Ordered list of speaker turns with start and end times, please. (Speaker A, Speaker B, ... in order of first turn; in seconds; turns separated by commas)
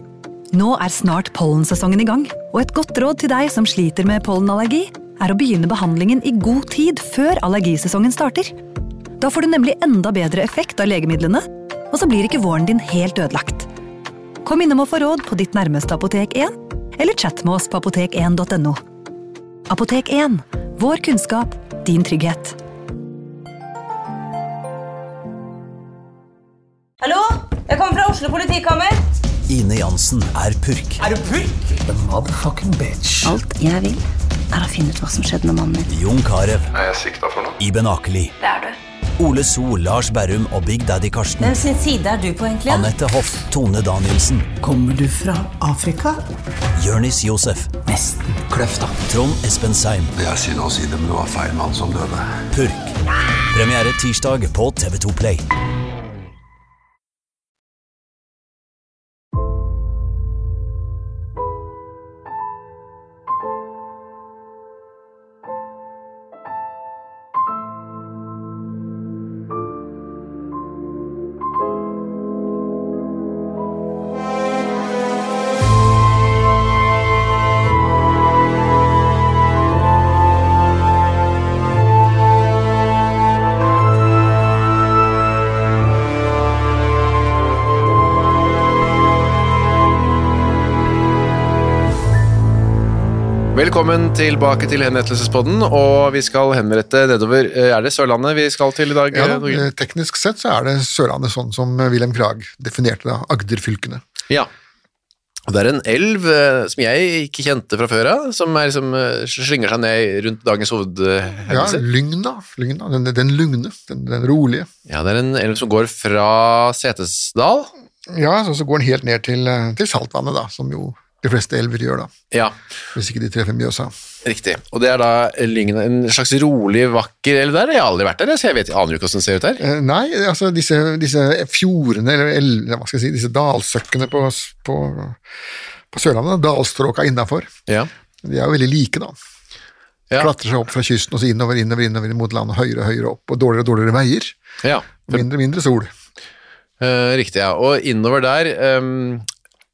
Speaker A: 0.5-8.5, Speaker A: 9.2-13.7, Speaker A: 14.4-18.8, Speaker A: 19.7-22.6, Speaker B: 27.0-29.0, Speaker C: 29.5-31.0, Speaker D: 31.7-33.3, Speaker E: 33.2-35.9, Speaker C: 35.9-36.7, Speaker F: 36.7-37.6, Speaker C: 37.6-38.3, Speaker B: 38.4-38.8, Speaker C: 39.2-41.6, Speaker B: 41.4-42.9, Speaker C: 42.7-44.5, Speaker D: 44.6-46.2, Speaker C: 46.8-47.8, Speaker D: 47.9-49.0, Speaker C: 49.0-50.1, Speaker F: 50.2-52.4, Speaker C: 52.5-53.0, Speaker C: 53.5-55.4, Speaker G: 93.5-99.7, Speaker H: 99.1-104.0, Speaker G: 105.5-111.8, Speaker H: 111.5-114.7, Speaker G: 114.9-117.7, Speaker H: 118.1-122.1, Speaker G: 122.3-122.6, Speaker H: 123.0-123.9, Speaker G: 124.2-129.6, Speaker H: 129.6-135.2, Speaker H: 135.9-137.5, Speaker H: 138.2-139.2, Speaker H: 140.2-144.4, Speaker G: 144.6-145.2, Speaker H: 145.1-145.9, Speaker G: 146.8-149.3